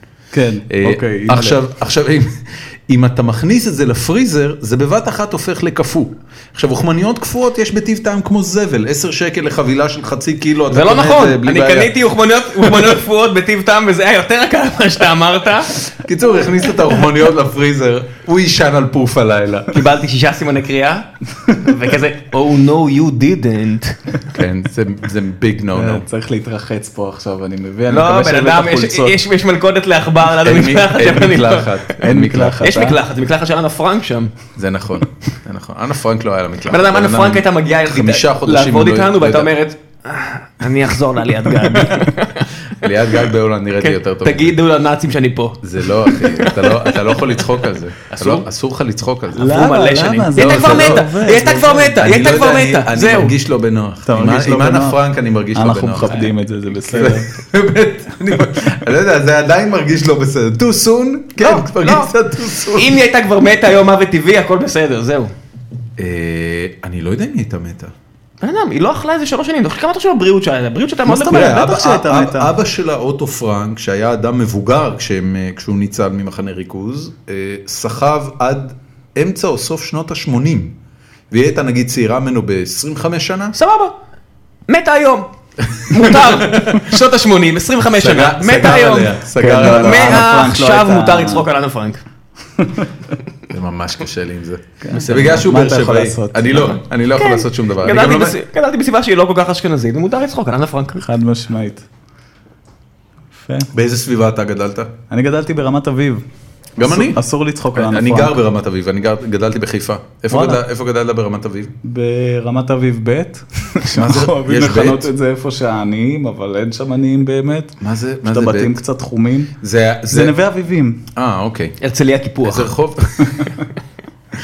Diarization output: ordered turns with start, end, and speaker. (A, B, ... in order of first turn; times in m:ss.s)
0:00.3-0:01.6 A
0:00.7-0:11.9 B
0:10.7-0:15.9 C
0:16.0-0:19.8 B
0:19.7-0:24.2 C
0:24.3-0:26.0 B
0:25.7-0:29.2 A
0:27.9-0:32.0 C
0:30.4-0:32.7 B
0:32.0-0:33.0 A
0:32.6-0:34.4 C
0:34.6-0:39.5 B
0:36.7-0:42.5 C
0:42.7-0:44.6 B
0:43.8-0:47.4 C
0:45.6-0:49.6 B
0:48.1-0:48.4 C
0:49.4-0:52.0 A
0:49.4-0:53.3 C
0:50.4-0:51.1 B
0:52.0-1:03.0 B
0:54.0-0:55.0 A
0:55.5-0:57.3 A
1:01.4-1:05.3 C
1:06.0-1:07.9 B
1:08.4-1:11.7 C
1:11.1-1:12.5 A
1:11.1-1:20.8 B
1:21.3-1:23.6 B
1:23.6-1:24.0 C
1:24.7-1:25.3 C
1:25.6-1:26.8 B
1:25.9-1:32.0 C
1:28.0-1:30.3 B
1:29.3-1:31.5 A
1:32.6-1:32.9 A
1:33.5-1:38.4 B
1:34.8-1:36.7 A
1:37.2-1:41.0 C
1:41.0-1:41.9 A
1:43.4-1:43.7 A
1:43.7-1:44.9 B
1:45.1-1:46.2 A
1:46.8-1:47.2 B
1:46.8-1:48.4 A
1:47.8-1:51.8 B
1:50.3-1:50.6 A
1:51.8-1:59.5 A
1:53.9-1:55.1 B
1:57.8-1:58.8 B
1:59.6-2:00.4 B
2:00.1-2:01.0 A
2:01.2-2:01.8 B
2:01.8-2:02.7 C
2:02.4-2:03.5 B
2:03.3-2:03.6 A